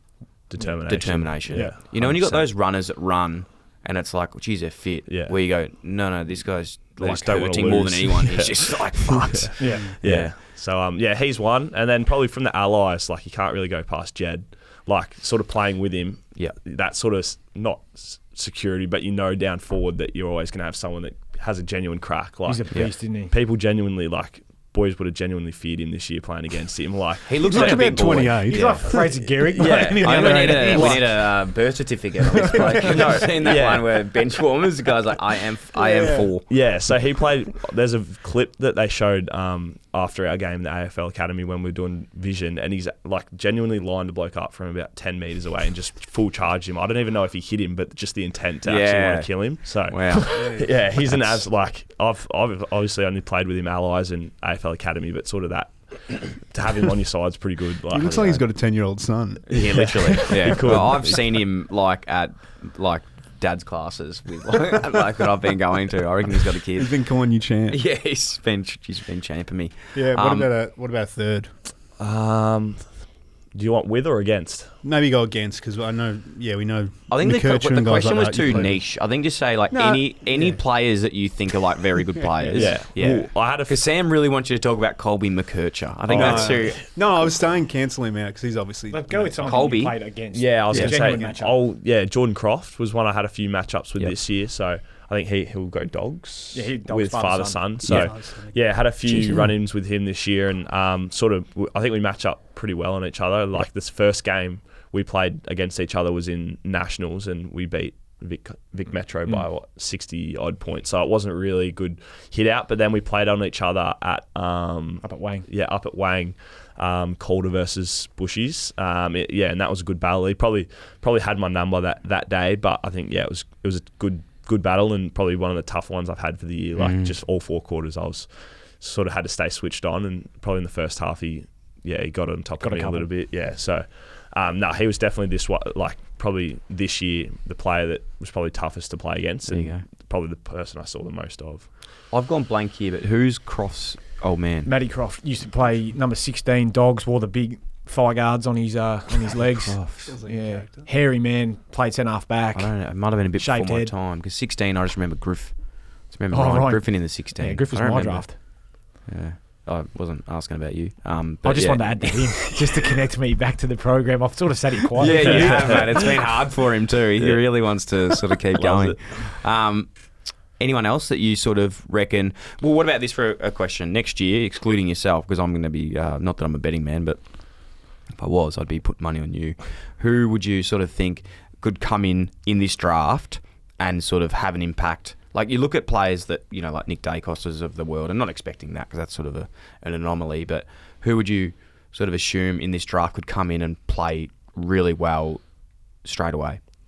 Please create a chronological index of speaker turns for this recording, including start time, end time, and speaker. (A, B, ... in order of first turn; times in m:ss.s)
0:00.5-0:02.5 A
0:00.9-0:10.3 B
0:05.1-0:05.3 A
0:07.0-0:27.9 A
0:09.6-0:09.9 C
0:22.5-0:23.3 C
0:27.3-0:36.5 B
0:27.4-0:29.2 D
0:28.4-0:31.2 C
0:29.6-0:31.0 A
0:30.5-0:30.9 D
0:33.4-0:34.0 A
0:35.8-0:36.3 D
0:36.5-0:58.4 A
0:48.6-0:50.5 B
0:50.4-0:50.7 D
0:57.9-0:59.9 D
0:59.5-1:07.0 B
1:00.1-1:01.2 A
1:06.7-1:07.8 D
1:07.7-1:10.5 B
1:09.9-1:11.5 D
1:12.0-1:12.9 A
1:13.5-1:14.7 A
1:14.8-1:18.8 D
1:17.1-1:26.8 B
1:19.7-1:20.6 D
1:22.2-1:22.8 D
1:22.5-1:23.8 A
1:26.1-1:26.8 A
1:26.1-1:29.7 D
1:28.9-1:31.6 C
1:29.4-1:30.0 B
1:30.3-2:08.3 A
1:30.7-1:31.0 B
1:30.7-1:31.3 D
1:36.5-1:37.6 C
1:37.8-1:38.6 D
1:55.0-1:55.4 C
2:06.8-2:07.2 B
2:08.8-2:21.7 A
2:12.6-2:13.1 C
2:19.5-2:19.8 B
2:22.1-2:24.7 B
2:24.6-2:33.9 C
2:29.6-2:30.1 B
2:30.0-2:30.9 D
2:32.5-2:42.8 B
2:36.3-2:38.4 C
2:41.4-2:46.2 C
2:45.0-2:49.9 B
2:45.1-2:45.9 A
2:48.6-2:49.2 A
2:50.6-2:57.2 B
2:58.1-3:15.4 B
3:16.0-3:16.6 B